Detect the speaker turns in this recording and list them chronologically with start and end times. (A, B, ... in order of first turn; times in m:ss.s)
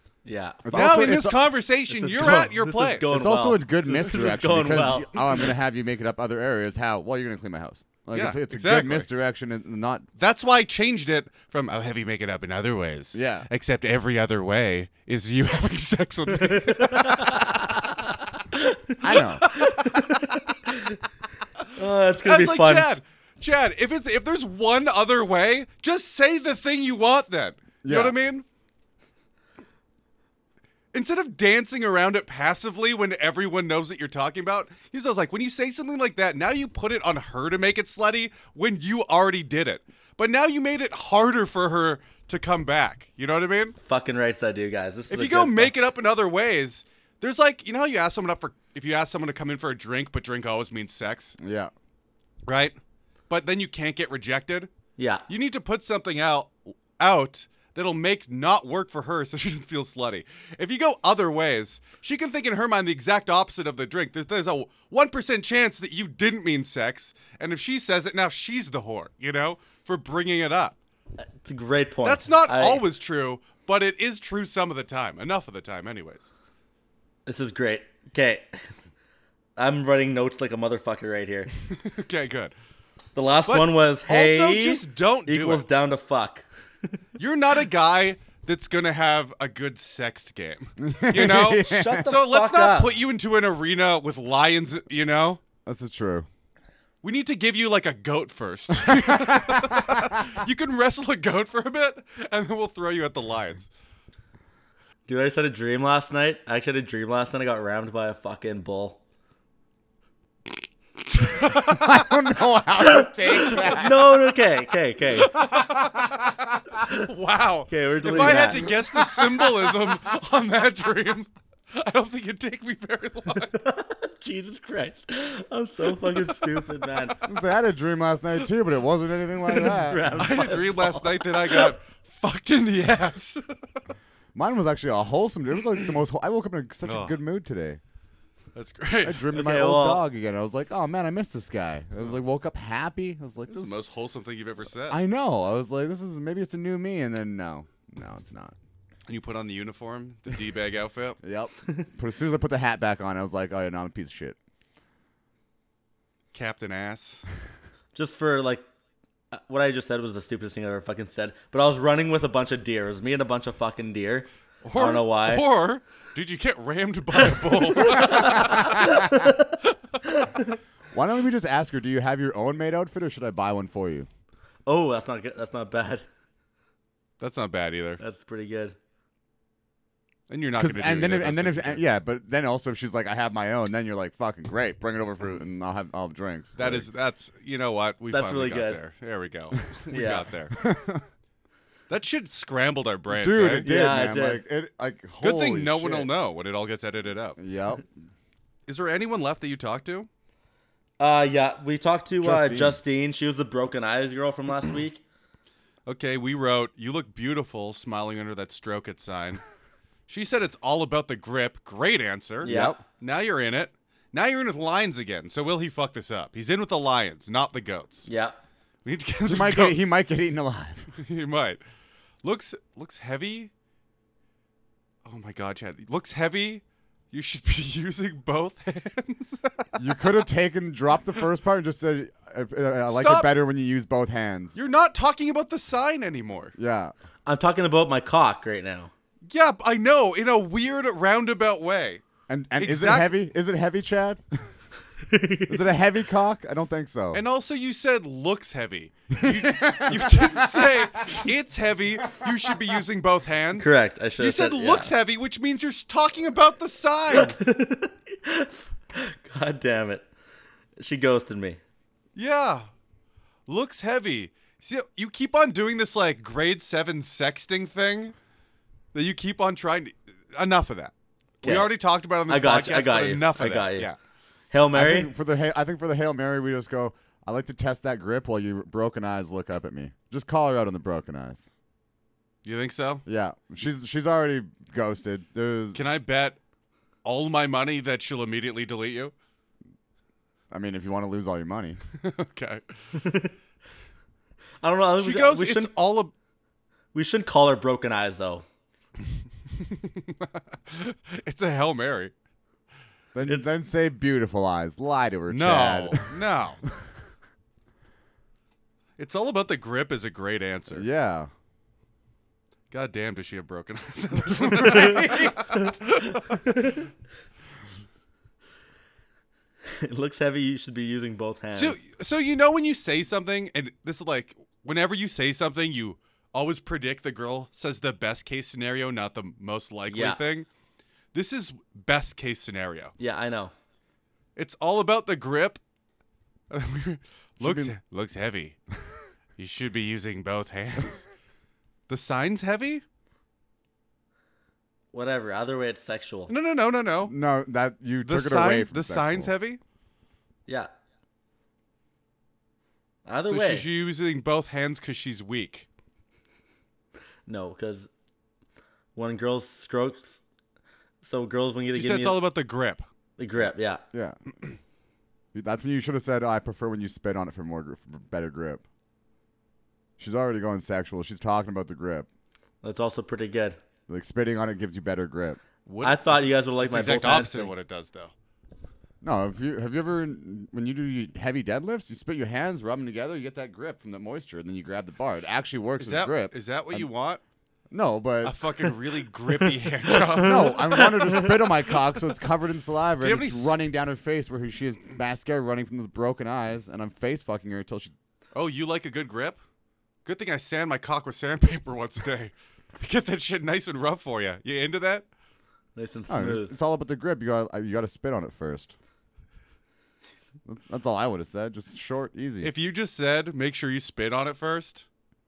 0:00.2-0:01.2 A
0:00.6-0:01.4 B
0:00.7-0:03.1 C
0:01.9-0:05.4 A
0:03.1-0:10.1 B
0:08.1-0:09.1 C
0:10.2-0:17.8 C
0:13.1-0:13.5 B
0:16.4-0:17.7 A
0:18.5-0:21.0 A
0:19.0-0:19.4 B
0:19.4-0:20.1 C
0:21.7-0:22.9 A
0:22.2-0:28.4 C
0:27.8-0:28.2 B
0:30.9-0:43.8 C
0:43.8-0:45.7 A
0:45.1-0:51.4 C
0:51.4-0:51.7 B
0:52.5-0:52.8 C
0:53.3-0:54.7 C
0:55.0-0:55.2 A
0:55.3-1:10.8 C
1:11.4-1:12.8 A
1:12.0-1:16.3 C
1:17.2-1:18.7 A
1:19.6-1:21.5 A
1:21.7-1:22.5 C
1:23.1-1:26.4 A
1:23.4-1:25.6 C
1:27.2-1:35.4 C
1:30.8-1:32.0 B
1:31.6-1:32.9 A
1:35.6-1:36.3 B
1:37.0-1:43.7 C
1:38.8-1:40.2 B
1:45.1-1:49.0 A
1:51.2-1:52.0 C
1:51.4-1:54.1 B
1:52.7-1:55.4 A
1:55.2-2:03.6 C
1:55.8-1:56.1 B
1:57.7-1:58.7 A
2:03.4-2:07.2 A
2:07.2-2:10.2 B
2:09.5-2:11.7 A
2:10.1-2:13.5 C
2:14.3-2:17.8 B
2:16.8-2:17.2 C
2:18.5-2:19.3 C
2:19.0-2:23.7 B
2:19.3-2:20.0 A
2:23.5-2:25.0 C
2:24.9-2:28.6 B
2:29.1-2:31.2 C
2:31.2-2:34.4 B
2:36.3-2:37.2 C
2:37.9-2:38.6 A
2:39.3-2:45.4 A
2:44.6-2:49.0 C
2:47.3-2:50.5 A
2:50.9-2:54.1 B
2:54.6-2:56.0 A
2:57.2-2:58.0 C
2:58.0-2:58.8 A
3:00.3-3:01.8 C
3:00.6-3:06.9 B
3:06.6-3:10.6 C
3:08.1-3:08.8 A
3:09.9-3:10.2 A
3:10.5-3:11.0 B
3:11.9-3:13.6 C
3:13.1-3:16.1 B
3:13.6-3:14.4 A
3:15.2-3:17.4 C
3:17.4-3:17.9 B
3:18.7-3:20.1 C
3:21.0-3:25.0 A
3:22.2-3:22.8 B
3:25.8-3:29.4 C
3:30.1-3:38.1 C
3:32.4-3:32.8 A
3:32.4-3:32.8 B
3:38.1-3:38.4 A
3:38.8-3:39.9 C
3:39.2-3:40.9 B
3:40.9-3:41.6 C
3:42.2-3:43.5 C
3:45.0-3:49.8 C
3:49.8-3:54.6 B
3:52.9-3:53.3 C
3:54.5-3:56.5 C
3:56.6-3:56.9 B
3:57.2-3:58.9 A
3:59.3-4:02.0 C
4:02.3-4:04.2 B
4:02.6-4:03.1 C
4:05.1-4:05.6 A
4:05.5-4:07.2 B
4:07.1-4:17.4 C
4:09.2-4:10.7 B
4:13.6-4:14.9 A
4:17.1-4:20.1 A
4:20.8-4:21.6 A
4:22.1-4:22.7 C
4:23.5-4:28.1 C
4:28.9-4:34.0 C
4:31.4-4:31.7 A
4:32.3-4:33.9 A
4:34.5-4:35.1 A
4:34.7-4:41.5 B
4:42.4-4:43.0 C
4:43.0-4:45.8 B
4:45.7-4:46.4 C
4:47.0-4:49.1 C
4:50.5-4:51.8 B
4:52.0-4:52.6 C
4:52.9-4:53.3 A
4:54.6-4:55.7 A
4:55.0-4:56.1 C
4:56.9-4:58.4 A
4:59.5-5:02.1 C
5:03.1-5:06.1 B
5:05.3-5:06.6 C
5:09.0-5:10.9 C
5:10.7-5:11.3 B
5:12.7-5:16.4 C
5:14.4-5:15.4 B
5:14.7-5:15.0 A
5:16.4-5:16.8 A
5:19.7-5:21.8 A
5:21.5-5:30.5 C
5:29.9-5:30.2 A
5:31.1-5:32.9 C
5:33.0-5:33.5 A
5:34.4-5:35.6 C
5:36.5-5:38.6 C
5:37.4-5:37.7 B
5:39.4-5:41.0 C
5:41.9-5:42.8 C
5:44.9-5:46.3 A
5:46.3-5:47.1 C
5:47.0-5:49.3 B
5:48.0-5:49.6 C
5:53.0-5:53.6 A
5:53.3-5:55.6 C
5:57.3-5:57.9 A
5:58.9-6:00.2 A
6:01.0-6:02.2 A
6:01.7-6:02.9 C
6:03.2-6:03.8 A
6:03.9-6:04.2 B
6:05.3-6:08.6 B
6:10.0-6:12.1 B
6:12.6-6:13.6 A
6:13.9-6:15.4 B
6:15.6-6:18.1 C
6:15.8-6:17.5 A
6:19.0-6:26.9 B
6:25.8-6:27.2 C
6:27.7-6:28.5 B
6:28.2-6:30.9 C
6:30.2-6:37.9 B
6:30.7-6:31.2 A
6:33.0-6:33.5 C
6:38.3-6:39.4 C
6:40.0-6:45.0 C
6:45.8-6:46.6 A
6:46.1-6:48.7 B
6:50.4-6:52.5 B
6:52.4-6:54.8 C